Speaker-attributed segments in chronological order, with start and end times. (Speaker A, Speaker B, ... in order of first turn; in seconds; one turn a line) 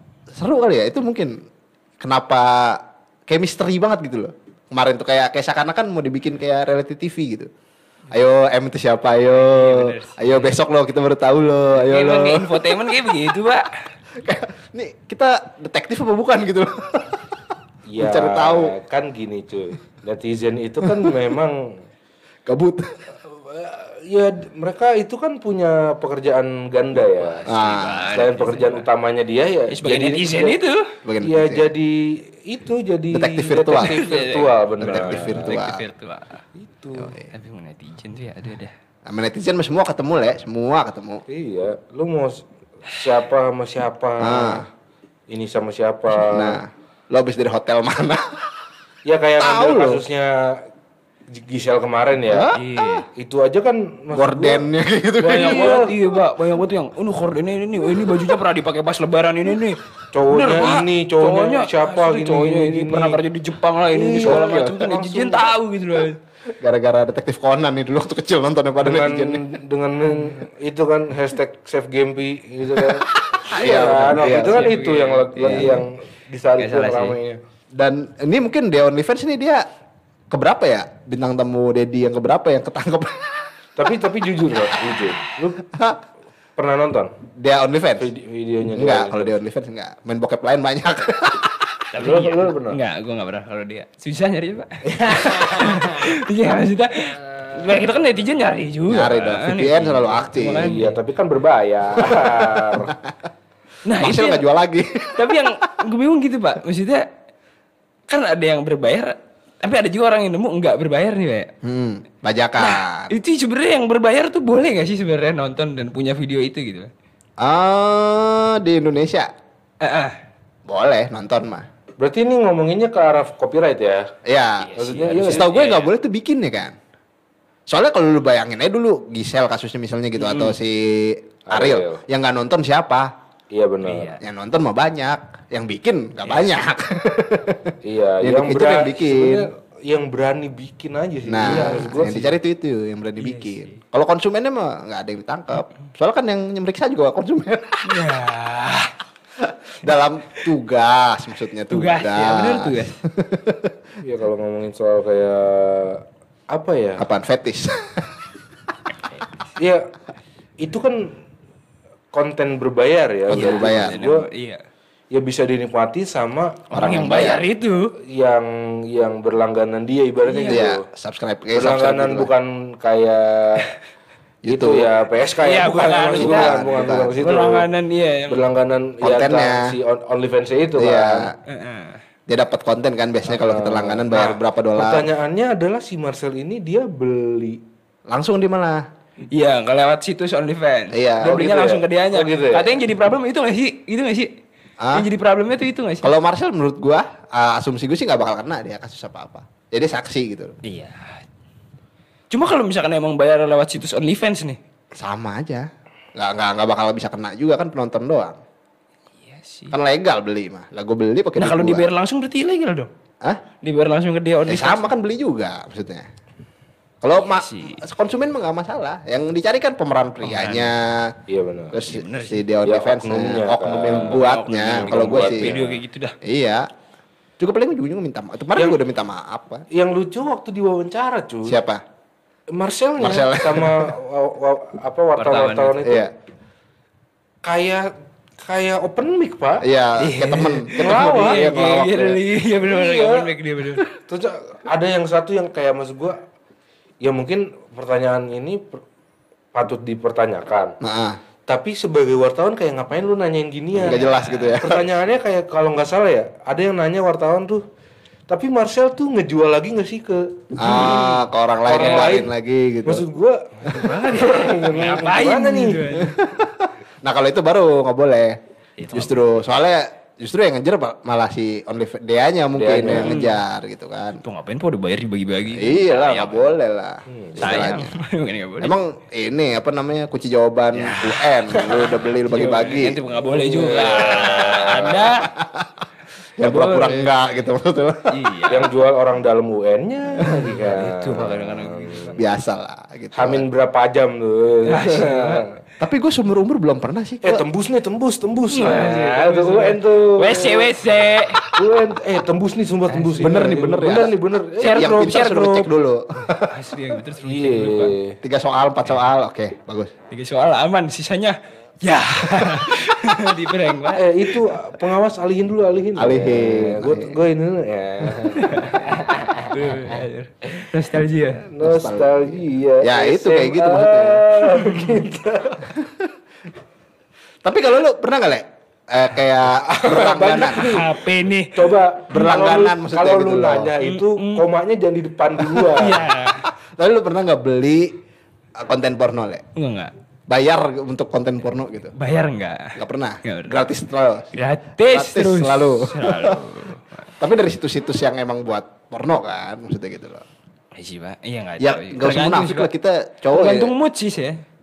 Speaker A: 0.3-1.3
Speaker A: 2.0-7.5
Speaker A: 8.1-12.7
Speaker B: 9.2-10.6
Speaker B: 11.8-13.7
Speaker A: 14.2-17.4
Speaker C: 17.9-21.7
Speaker A: 18.0-18.7
Speaker A: 20.8-21.1
Speaker A: 22.5-23.0
Speaker C: 23.3-27.5
Speaker B: 27.3-28.9
Speaker A: 27.5-28.3
Speaker C: 28.1-30.6
Speaker B: 29.7-30.9
Speaker A: 31.1-31.7
Speaker C: 31.2-35.5
Speaker A: 33.1-34.0
Speaker B: 33.7-36.4
Speaker A: 34.8-35.8
Speaker C: 36.6-37.1
Speaker A: 37.0-37.3
Speaker B: 37.3-38.7
Speaker A: 39.1-41.2
Speaker C: 41.3-44.6
Speaker A: 44.2-44.6
Speaker C: 45.3-46.6
Speaker A: 46.2-48.2
Speaker C: 49.1-50.6
Speaker A: 49.4-50.0
Speaker C: 51.3-52.5
Speaker A: 52.3-52.6
Speaker B: 52.5-53.1
Speaker C: 53.1-54.6
Speaker A: 54.1-55.8
Speaker B: 55.2-66.2
Speaker C: 55.3-55.9
Speaker C: 60.1-63.2
Speaker C: 64.0-65.5
Speaker A: 64.2-64.8
Speaker A: 66.5-69.4
Speaker C: 68.8-77.4
Speaker A: 72.8-74.8
Speaker B: 73.6-75.8
Speaker A: 75.4-75.8
Speaker B: 76.6-77.2
Speaker A: 77.8-79.7
Speaker A: 80.3-83.5
Speaker C: 83.8-85.7
Speaker A: 85.7-86.0
Speaker C: 86.6-87.1
Speaker A: 87.4-88.1
Speaker C: 88.0-89.3
Speaker A: 88.7-91.7
Speaker B: 91.9-101.0
Speaker C: 92.0-92.8
Speaker A: 98.9-100.8
Speaker C: 100.4-102.9
Speaker A: 102.0-103.1
Speaker B: 103.8-104.5
Speaker A: 104.0-105.5
Speaker B: 105.2-107.1
Speaker B: 108.1-111.5
Speaker A: 111.6-113.1
Speaker B: 112.6-116.9
Speaker A: 117.4-119.3
Speaker B: 119.8-120.2
Speaker A: 120.7-121.7
Speaker C: 122.0-124.1
Speaker A: 124.2-126.8
Speaker B: 124.6-125.9
Speaker C: 124.8-125.5
Speaker A: 127.7-133.1
Speaker B: 130.2-130.6
Speaker C: 131.5-132.0
Speaker C: 133.5-134.1
Speaker B: 133.8-134.2
Speaker A: 134.2-139.5
Speaker B: 136.2-136.5
Speaker C: 137.8-142.4
Speaker A: 141.3-148.1
Speaker B: 141.4-142.0
Speaker B: 143.2-143.8
Speaker B: 147.8-148.9
Speaker A: 149.4-153.7
Speaker B: 151.7-153.0
Speaker C: 154.0-157.1
Speaker A: 157.0-158.2
Speaker B: 159.1-159.3
Speaker C: 159.6-159.8
Speaker C: 160.6-161.1
Speaker C: 162.1-164.3
Speaker A: 163.3-164.0
Speaker B: 163.3-164.6
Speaker C: 165.1-166.6
Speaker B: 166.7-167.9
Speaker A: 166.7-167.4
Speaker C: 168.0-170.8
Speaker B: 170.2-170.7
Speaker A: 170.5-172.3
Speaker C: 171.6-173.7
Speaker A: 174.4-174.9
Speaker C: 174.5-177.7
Speaker B: 175.4-176.6
Speaker A: 176.1-177.2
Speaker B: 177.2-178.4
Speaker C: 178.3-181.3
Speaker A: 179.0-179.7
Speaker A: 180.8-181.3
Speaker B: 181.5-182.0
Speaker A: 182.3-185.1
Speaker C: 183.3-187.6
Speaker A: 188.1-188.8
Speaker B: 189.3-194.3
Speaker A: 190.9-191.7
Speaker C: 191.2-192.8
Speaker A: 194.8-195.1
Speaker B: 194.9-196.1
Speaker A: 196.0-200.6
Speaker B: 200.6-201.2
Speaker B: 202.3-204.6
Speaker A: 205.0-208.4
Speaker B: 209.2-209.8
Speaker A: 209.7-211.8
Speaker B: 211.4-212.9
Speaker B: 213.6-214.9
Speaker A: 214.5-216.1
Speaker A: 217.0-221.2
Speaker B: 217.2-217.8
Speaker B: 220.2-220.7
Speaker C: 221.3-221.8
Speaker A: 221.7-225.5
Speaker B: 221.8-222.4
Speaker C: 222.7-225.8
Speaker B: 223.8-226.2
Speaker A: 226.2-226.7
Speaker A: 227.4-229.7
Speaker C: 229.7-231.6
Speaker A: 231.5-231.8
Speaker C: 232.5-236.1
Speaker A: 233.0-233.9
Speaker B: 235.2-235.8
Speaker A: 235.8-236.1
Speaker C: 237.4-237.9
Speaker C: 238.4-239.7
Speaker A: 239.6-242.2
Speaker B: 240.0-243.9
Speaker C: 240.7-241.6
Speaker C: 242.6-243.3
Speaker C: 243.9-246.2
Speaker C: 247.0-248.8
Speaker C: 249.5-250.8
Speaker A: 250.8-251.2
Speaker C: 251.5-254.0
Speaker A: 253.8-254.9
Speaker B: 253.8-254.6
Speaker C: 254.6-257.6
Speaker C: 258.3-261.0
Speaker A: 260.6-263.1
Speaker B: 260.6-262.2
Speaker C: 261.7-262.3
Speaker C: 262.9-266.0
Speaker B: 263.6-266.2
Speaker A: 266.2-268.4
Speaker B: 268.8-269.2
Speaker A: 268.9-274.2
Speaker C: 272.6-273.1
Speaker B: 272.9-273.4
Speaker B: 274.2-276.5
Speaker A: 275.6-278.0
Speaker C: 277.1-277.5
Speaker B: 277.4-278.8
Speaker A: 278.6-283.0
Speaker B: 280.7-285.3
Speaker C: 283.3-284.4
Speaker A: 283.7-285.7
Speaker A: 286.4-288.4
Speaker B: 286.4-287.1
Speaker B: 288.1-288.7
Speaker C: 288.5-292.2
Speaker B: 290.2-292.1
Speaker A: 290.2-290.5
Speaker A: 292.2-293.4
Speaker C: 293.2-295.5
Speaker B: 294.7-295.5
Speaker A: 295.8-297.4
Speaker C: 297.2-300.8
Speaker B: 298.5-301.5
Speaker C: 301.6-305.5
Speaker B: 302.9-303.4
Speaker A: 303.2-306.5
Speaker B: 304.6-305.7
Speaker B: 306.3-307.9
Speaker C: 307.2-308.2
Speaker A: 308.2-309.9
Speaker B: 310.1-314.4
Speaker C: 313.9-319.5
Speaker A: 316.0-317.2
Speaker B: 318.3-321.5
Speaker C: 321.4-325.7
Speaker A: 321.6-324.3
Speaker B: 324.6-325.0
Speaker A: 325.6-326.1
Speaker A: 327.4-330.8
Speaker C: 329.5-331.0
Speaker B: 330.5-332.3
Speaker C: 331.5-336.1
Speaker A: 332.1-333.8
Speaker B: 333.8-334.4
Speaker A: 335.4-335.7
Speaker B: 335.8-336.4
Speaker A: 336.4-338.0
Speaker A: 338.6-339.4
Speaker B: 339.6-339.9
Speaker A: 340.3-341.9
Speaker B: 342.0-343.6
Speaker A: 342.8-344.3
Speaker B: 344.3-347.1
Speaker A: 344.9-346.6
Speaker A: 347.2-350.2
Speaker B: 350.8-352.7
Speaker A: 351.6-353.7
Speaker B: 353.3-354.4